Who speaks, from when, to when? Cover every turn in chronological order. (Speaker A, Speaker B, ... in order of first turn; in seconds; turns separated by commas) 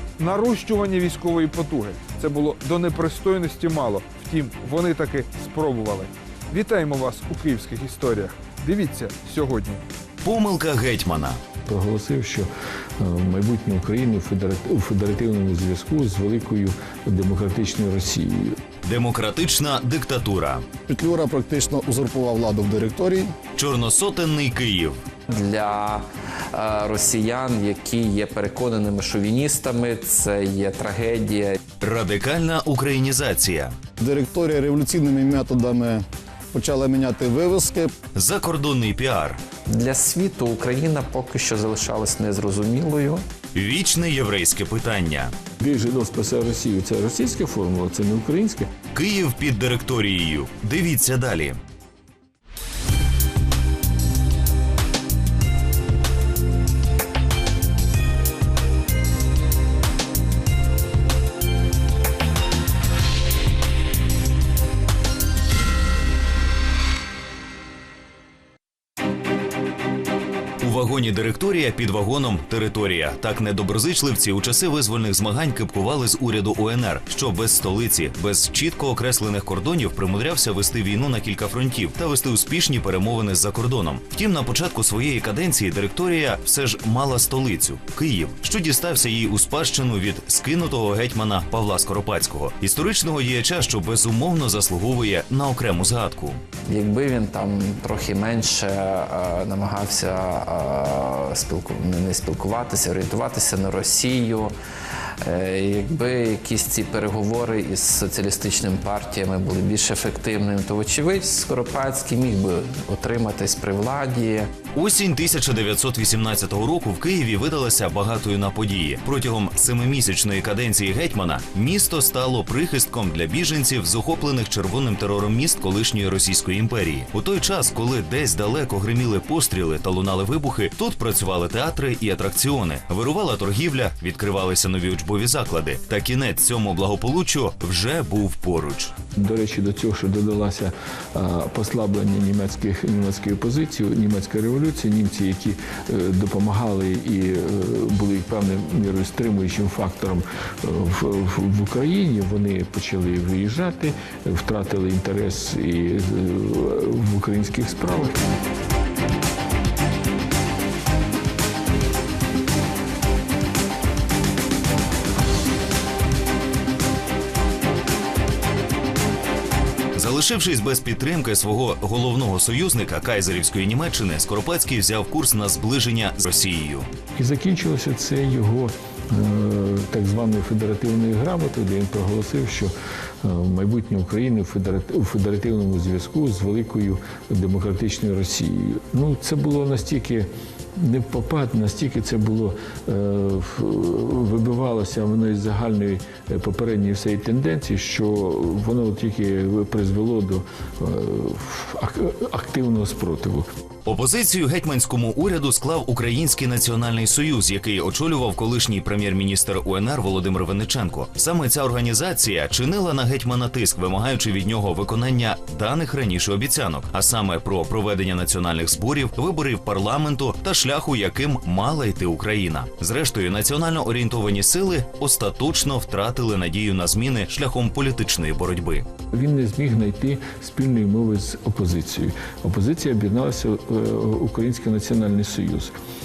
Speaker A: 0.2-9.8, Speaker B: 10.2-11.4, Speaker C: 11.7-18.6, Speaker B: 18.8-20.6, Speaker D: 20.9-23.3, Speaker B: 23.6-25.0, Speaker E: 25.3-31.6, Speaker B: 31.8-33.7, Speaker D: 34.0-37.9, Speaker B: 38.1-39.4, Speaker E: 39.7-43.2, Speaker B: 43.5-45.3, Speaker C: 45.6-48.7, Speaker B: 48.9-51.6, Speaker B: 70.6-96.4, Speaker E: 96.7-104.5, Speaker E: 105.2-114.5, Speaker B: 114.8-138.9, Speaker C: 139.2-158.2, Speaker B: 169.9-176.9, Speaker C: 177.2-203.5, Speaker B: 203.8-228.9, Speaker C: 229.1-235.7